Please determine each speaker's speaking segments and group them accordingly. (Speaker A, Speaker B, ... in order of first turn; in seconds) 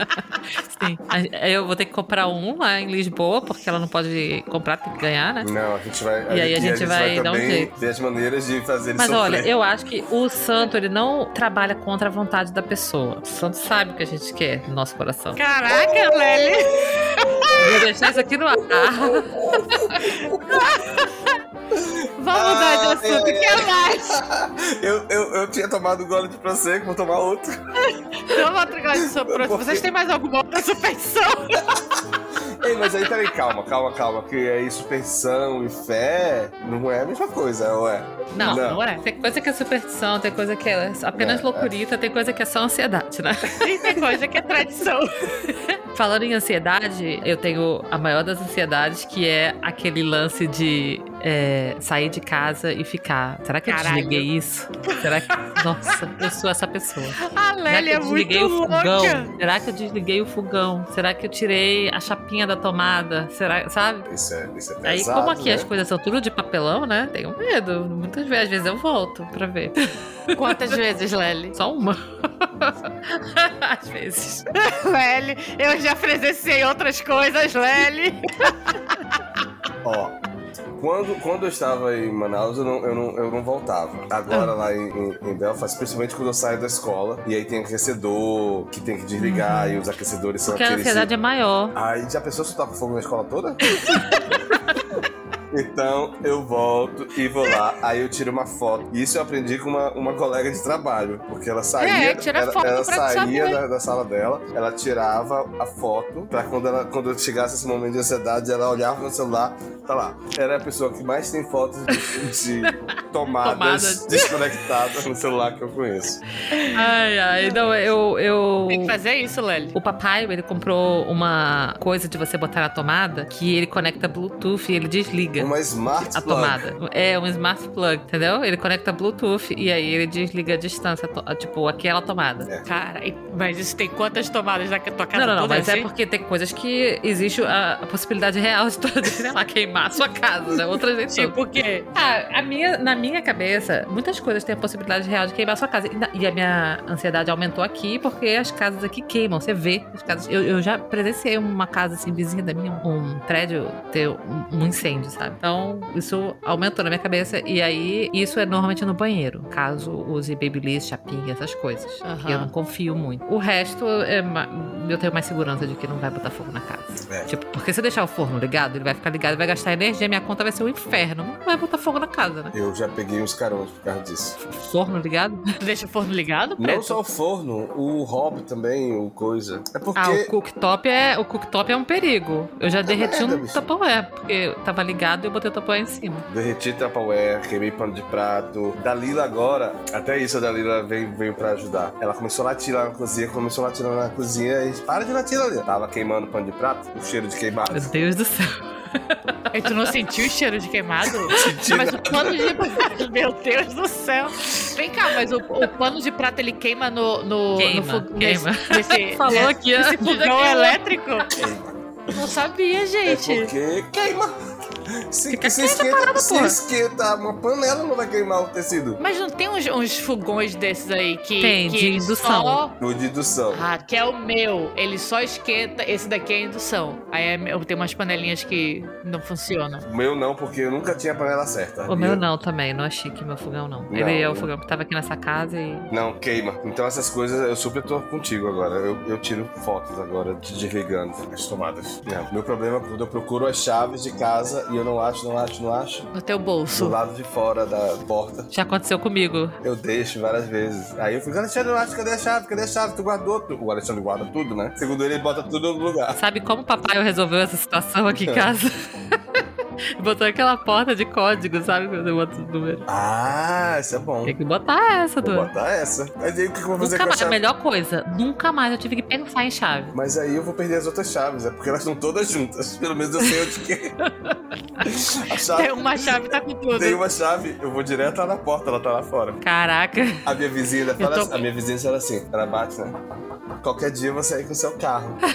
Speaker A: 0.8-5.5, 6.3-7.7, 9.0-15.4, 17.5-20.0, 38.3-44.0, 45.9-64.1, 64.8-69.8, 70.3-70.6, 71.6-74.5, 89.2-89.8, 90.5-91.8, 93.8-94.2, 113.4-114.4, 116.7-119.0, 119.8-132.5, 135.1-141.4, 141.9-172.5, 174.4-175.4, 180.0-186.3, 197.7-199.9, 201.3-201.6, 207.6-210.8, 215.3-216.6, 221.4-222.6, 231.9-235.9, 248.5-249.6, 256.2-259.4, 260.0-262.9, 264.3-265.5, 266.8-269.9, 279.4-280.3
Speaker B: 5.4-9.5, 15.7-16.6, 17.4-17.8, 18.6-20.7, 21.7-27.6, 29.2-29.9, 31.6-38.8, 41.2-41.7, 64.1-65.7, 79.8-80.2, 80.8-91.1, 91.8-93.8, 95.5-116.2, 125.4-126.7, 172.5-174.4, 176.6-180.3, 182.8-183.6, 186.3-197.9, 201.3-202.7, 211.3-211.8, 213.1-214.3, 214.9-219.0, 222.8-223.6, 229.8-232.2, 233.9-234.5, 235.9-246.1, 246.7-248.5, 249.6-256.2, 258.1-258.5, 262.9-264.4, 265.2-267.4, 269.9-274.0, 274.8-275.9, 276.8-279.4, 280.2-283.0, 283.6-285.2
Speaker C: 15.4-17.8, 20.5-21.1, 22.2-24.2, 27.9-31.7, 38.4-39.0, 43.6-45.4, 53.7-54.3, 54.9-55.6, 57.2-59.3, 70.3-71.6, 74.5-79.2, 93.9-94.2, 101.8-103.6, 116.5-116.9, 118.7-119.8, 132.7-135.9, 141.1-141.9, 162.1-162.5, 175.6-177.0, 199.5-211.3, 212.1-213.5, 219.0-222.8, 223.5-229.8, 246.1-247.0, 275.5-277.0, 281.0-281.4